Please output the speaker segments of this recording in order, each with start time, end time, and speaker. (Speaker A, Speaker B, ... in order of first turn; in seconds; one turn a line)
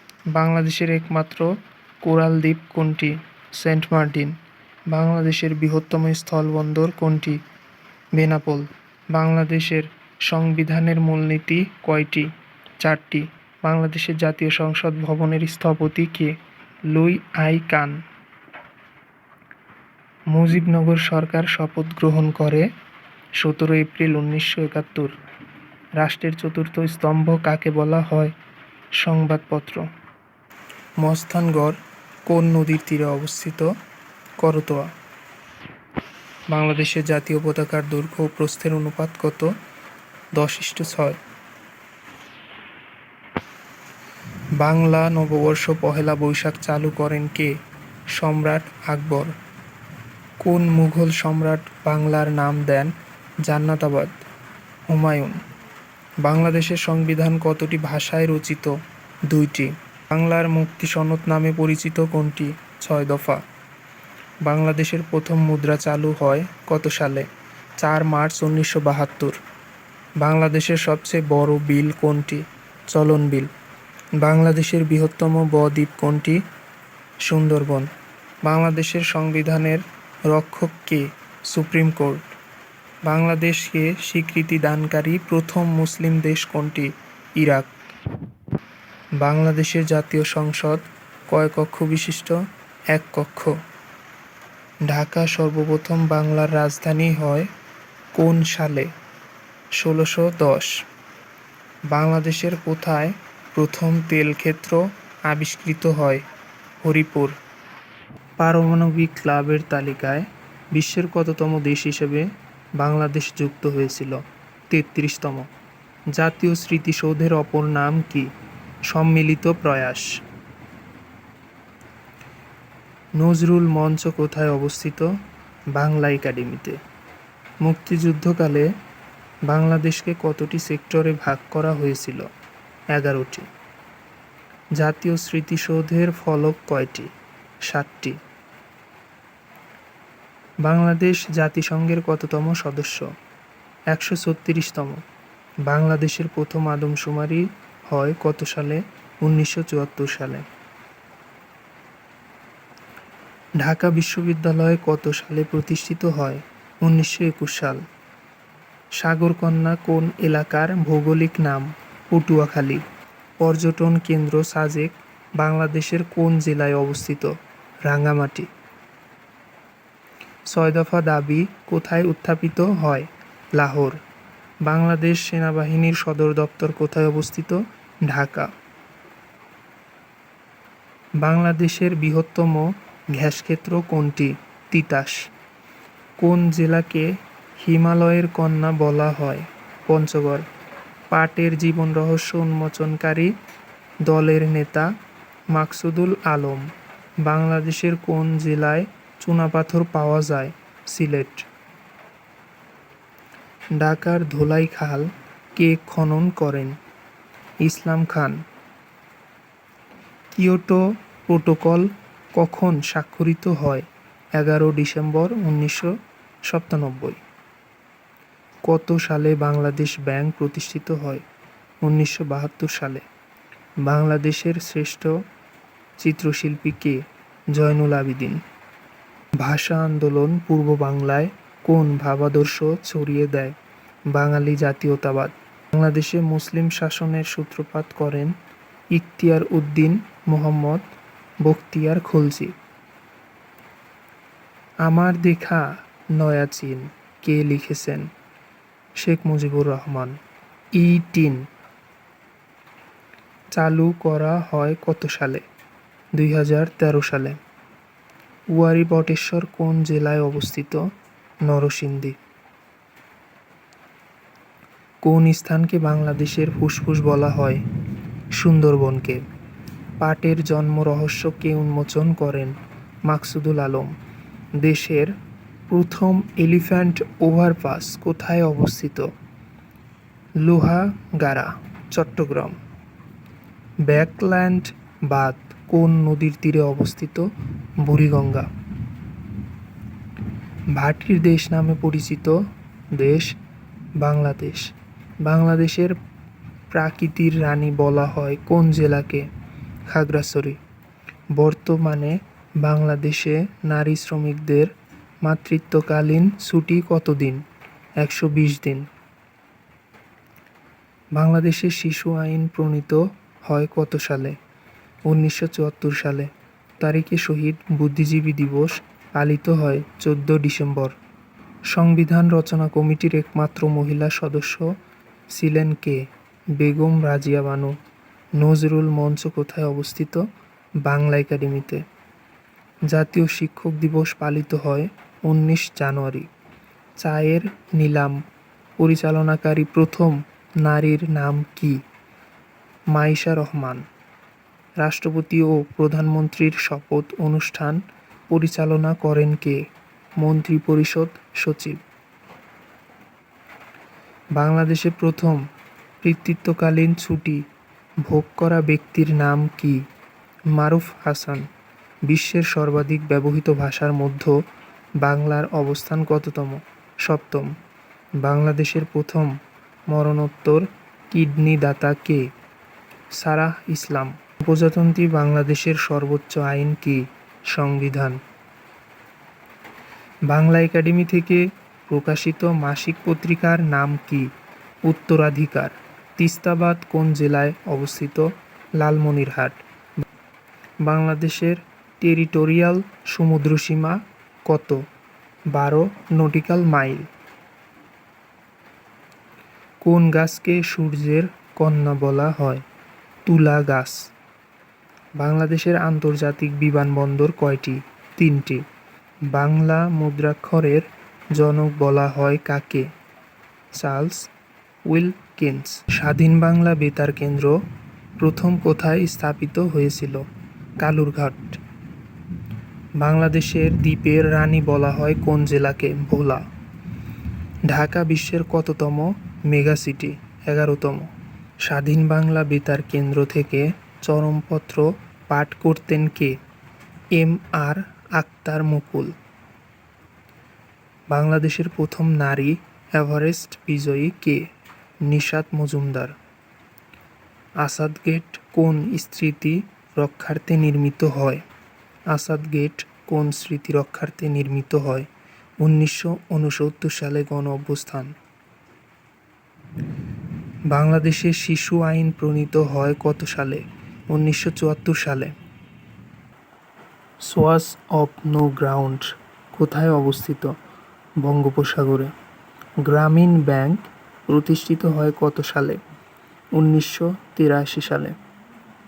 Speaker A: 0.3-4.4
Speaker A: 4.9-7.4
Speaker A: 8.1-12.3
Speaker A: 12.8-16.4
Speaker A: 16.9-18.0
Speaker A: 20.3-22.7
Speaker A: 23.4-25.1
Speaker A: 26.0-28.3
Speaker A: 29.0-29.9
Speaker A: 31.0-33.7
Speaker A: 34.4-34.9
Speaker A: 36.5-39.5
Speaker A: 40.3-41.2
Speaker A: 44.5-47.5
Speaker A: 48.1-49.3
Speaker A: 50.4-54.2
Speaker A: 54.9-55.4
Speaker A: 56.2-58.8
Speaker A: 59.3-63.4
Speaker A: 64.4-67.3
Speaker A: 67.8-69.4
Speaker A: 70.2-73.5
Speaker A: 74.2-76.4
Speaker A: 77.2-77.9
Speaker A: 78.4-82.3
Speaker A: 83.0-87.7
Speaker A: 89.2-92.4
Speaker A: 92.9-93.5
Speaker A: 94.8-97.5
Speaker A: 98.1-98.9
Speaker A: 99.7-100.8
Speaker A: 101.9-106.2
Speaker A: 106.8-107.3
Speaker A: 108.4-115.5
Speaker A: 116.1-118.3
Speaker A: 118.9-120.2
Speaker A: 123.2-125.1
Speaker A: 125.7-126.8
Speaker A: 127.6-128.7
Speaker A: 129.4-132.2
Speaker A: 132.9-133.5
Speaker A: 134.8-137.1
Speaker A: 137.6-138.2
Speaker A: 140.6-143.1
Speaker A: 143.9-145.0
Speaker A: 145.7-150.4
Speaker A: 153.6-157.8
Speaker A: 158.9-162.8
Speaker A: 163.4-168.5
Speaker A: 170.5-174.0
Speaker A: 174.6-178.5
Speaker A: 181.2-185.2
Speaker A: 186.2-190.4
Speaker A: 191.1-193.3
Speaker A: 194.0-194.9
Speaker A: 195.5-196.7
Speaker A: 197.2-201.5
Speaker A: 203.7-206.8
Speaker A: 207.6-208.4
Speaker A: 210.3-215.9
Speaker A: 216.5-217.2
Speaker A: 218.7-221.2
Speaker A: 221.8-223.0
Speaker A: 223.8-225.1
Speaker A: 226.0-228.4
Speaker A: 229.4-233.6
Speaker A: 234.1-238.3
Speaker A: 238.9-242.5
Speaker A: 244.8-248.1
Speaker A: 248.9-250.2
Speaker A: 250.7-251.5
Speaker A: 253.6-255.4
Speaker A: 256.1-257.4
Speaker A: 258.5-260.9
Speaker A: 261.4-262.2
Speaker A: 265.0-267.6
Speaker A: 268.3-269.2
Speaker A: 270.0-273.9
Speaker A: 274.6-275.1
Speaker A: 275.7-279.1
Speaker A: 280.4-282.6
Speaker A: 283.8-288.5
Speaker A: 290.7-292.4
Speaker A: 292.9-293.3
Speaker A: 294.0-295.9
Speaker A: 296.7-299.3
Speaker A: 299.9-300.6
Speaker A: 301.3-304.7
Speaker A: 305.2-307.4
Speaker A: 308.0-308.9
Speaker A: 311.1-314.4
Speaker A: 315.1-320.9
Speaker A: 321.7-324.7
Speaker A: 325.3-326.0
Speaker A: 326.6-327.8
Speaker A: 328.4-330.2
Speaker A: 330.8-331.8
Speaker A: 332.9-336.3
Speaker A: 337.0-338.2
Speaker A: 338.8-341.8
Speaker A: 342.9-343.8
Speaker A: 344.8-351.8
Speaker A: 354.4-355.4
Speaker A: 356.0-357.4
Speaker A: 358.0-359.8
Speaker A: 360.5-361.4
Speaker A: 362.1-364.4
Speaker A: 365.0-367.5
Speaker A: 368.2-369.3
Speaker A: 369.9-372.2
Speaker A: 373.2-378.2
Speaker A: 380.3-384.3
Speaker A: 384.9-389.6
Speaker A: 390.8-394.8
Speaker A: 395.5-397.1
Speaker A: 399.8-402.6
Speaker A: 403.2-404.1
Speaker A: 405.2-408.6
Speaker A: 409.3-412.9
Speaker A: 413.7-414.3
Speaker A: 414.9-417.6
Speaker A: 418.2-420.2
Speaker A: 420.8-421.6
Speaker A: 423.0-426.4
Speaker A: 427.6-431.1
Speaker A: 431.6-436.4
Speaker A: 437.1-439.1
Speaker A: 441.1-444.5
Speaker A: 445.0-446.1
Speaker A: 447.6-451.4
Speaker A: 452.1-455.1
Speaker A: 455.6-458.1
Speaker A: 460.7-465.3
Speaker A: 467.2-470.5
Speaker A: 471.2-472.1
Speaker A: 472.8-475.8
Speaker A: 476.5-478.1